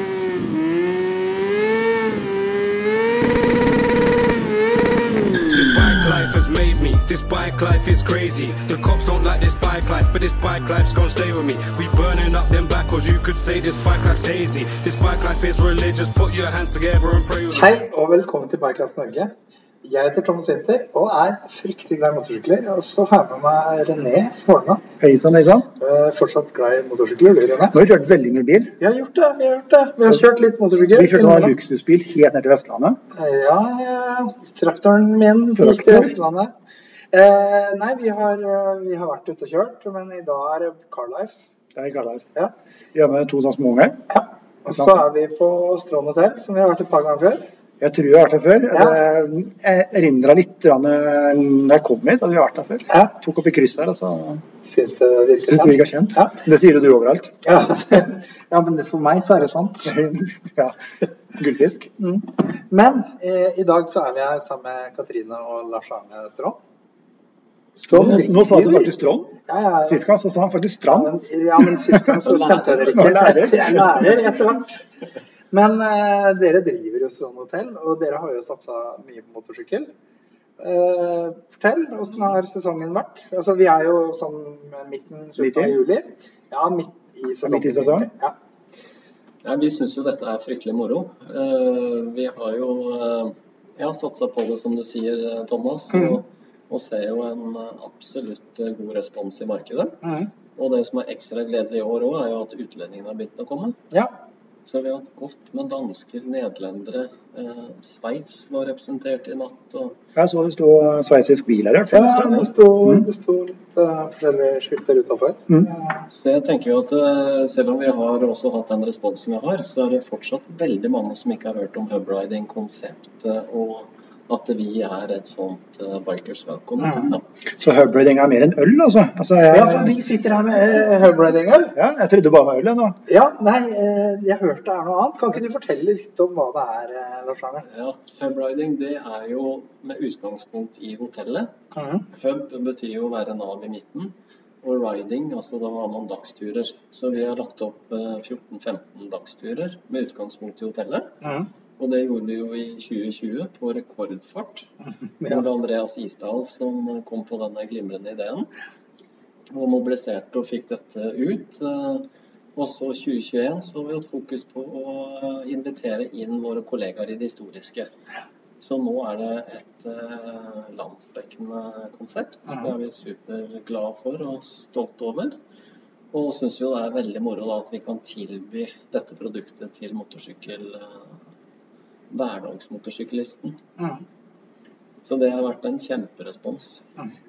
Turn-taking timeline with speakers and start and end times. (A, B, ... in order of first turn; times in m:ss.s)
0:05.5-0:17.7 A
0:17.5-0:24.8 B
0:25.0-0:25.7 C
0:25.8-0:27.8 B
0:27.7-0:28.7 C
0:28.8-0:31.5 B
0:30.9-0:33.0 C
0:33.1-0:36.5 B
0:35.6-0:36.1 C
0:37.1-0:41.3 B
0:41.8-0:42.2 C
0:42.9-0:44.0 C
0:44.1-0:47.5 B
0:44.7-0:45.0 C
0:47.8-0:54.4 C
0:48.7-0:49.0 B
0:54.6-0:56.4 B
0:55.4-0:57.3 C
0:57.4-1:00.0 B
0:59.8-1:00.8 C
1:01.3-1:01.9 C
1:02.0-1:06.6 B
1:07.8-1:10.0 B
1:07.9-1:09.3 C
1:09.9-1:14.2 C
1:10.9-1:14.8 B
1:12.4-1:13.3 D
1:15.5-1:19.9 B
1:20.6-1:28.3 B
1:25.4-1:25.8 C
1:27.4-1:28.1 C
1:29.4-1:40.0 D
1:40.0-1:40.3 B
1:40.6-1:43.8 D
1:44.6-1:50.0 D
1:50.2-1:53.0 C
1:51.9-1:56.0 B
1:56.1-2:07.2 D
2:06.8-2:07.1 B
2:07.6-2:09.9 C
2:09.5-2:11.7 B
2:11.7-2:13.0 C
2:13.1-2:17.6 B
2:17.7-2:21.5 D
2:21.7-2:22.0 B
2:22.1-2:31.1 D
2:31.2-2:31.5 B
2:31.8-2:34.7 D
2:35.2-2:38.5 D
2:39.5-2:47.9 D
2:48.6-2:55.4 D
2:56.1-3:01.1 D
3:02.1-3:03.6 D
3:05.0-3:06.8 D